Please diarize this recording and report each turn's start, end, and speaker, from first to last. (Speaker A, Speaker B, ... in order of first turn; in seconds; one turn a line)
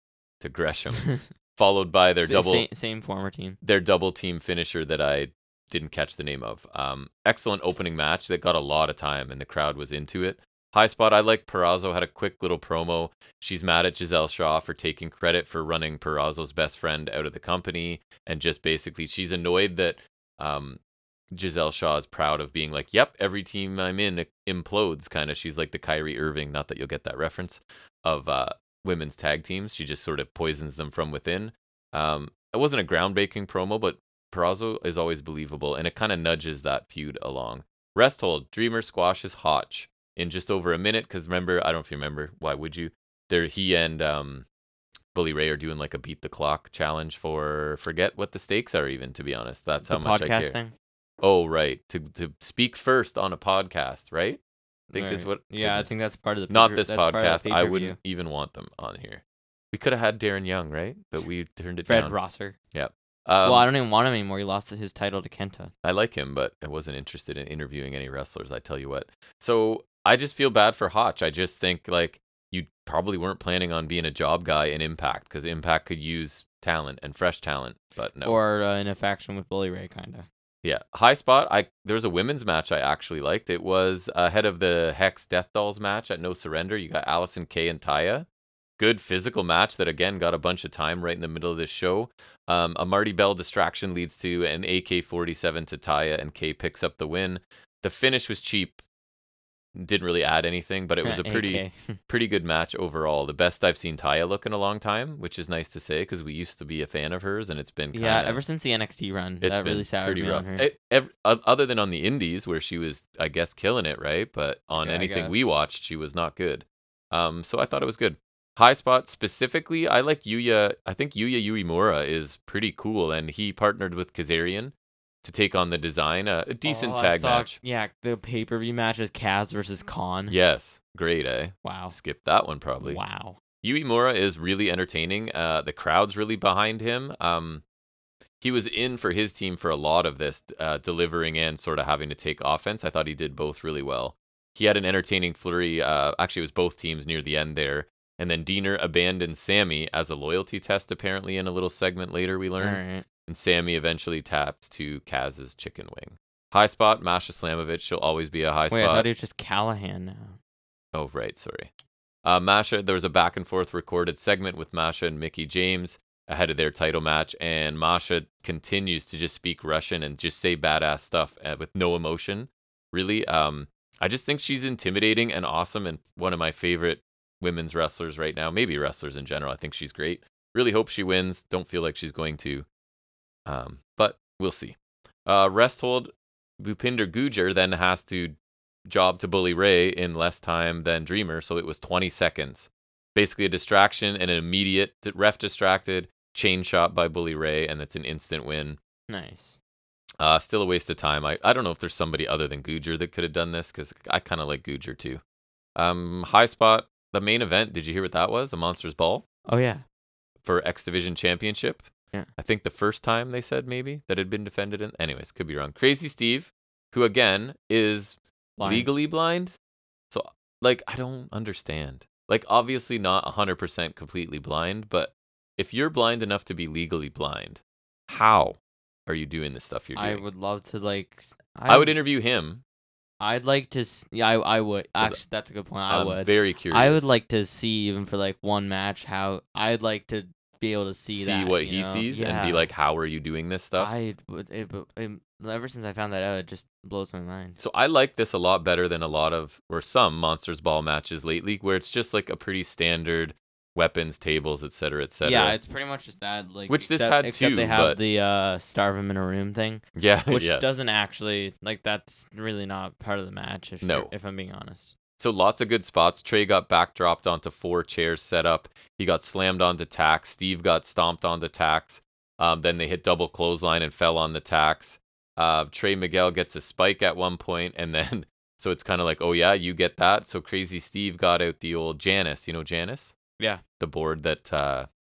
Speaker A: 0.4-2.7
Speaker B: 2.2-3.6
Speaker A: 3.6-20.8
Speaker A: 21.3-44.5
Speaker A: 45.1-50.6
Speaker B: 49.8-50.7
Speaker A: 51.2-54.4
Speaker B: 54.9-58.0
Speaker A: 54.9-55.9
Speaker A: 56.5-62.1
Speaker B: 61.9-62.5
Speaker A: 62.7-63.7
Speaker B: 63.4-65.7
Speaker A: 65.8-78.4
Speaker B: 78.2-80.3
Speaker A: 80.6-88.2
Speaker A: 88.8-98.8
Speaker A: 99.7-108.4
Speaker B: 101.0-102.0
Speaker B: 107.9-110.7
Speaker A: 109.4-127.6
Speaker B: 114.8-115.5
Speaker B: 126.6-130.3
Speaker A: 130.3-133.0
Speaker B: 131.6-131.9
Speaker B: 132.8-133.4
Speaker A: 133.6-137.6
Speaker A: 138.4-159.1
Speaker B: 152.6-153.0
Speaker B: 158.7-160.4
Speaker A: 160.9-161.7
Speaker A: 162.2-182.7
Speaker A: 183.4-188.3
Speaker A: 188.9-198.8
Speaker B: 199.1-199.6
Speaker A: 200.2-205.2
Speaker A: 205.8-209.2
Speaker B: 209.4-209.8
Speaker A: 210.4-219.5
Speaker B: 218.6-218.9
Speaker A: 220.1-230.2
Speaker B: 229.9-232.0
Speaker A: 231.7-232.6
Speaker B: 233.2-242.7
Speaker A: 235.9-237.1
Speaker A: 241.1-243.9
Speaker B: 243.8-247.6
Speaker A: 247.6-255.6
Speaker B: 255.2-264.9
Speaker A: 256.7-258.0
Speaker A: 259.9-260.8
Speaker A: 263.8-264.1
Speaker A: 265.2-283.1
Speaker A: 283.8-284.9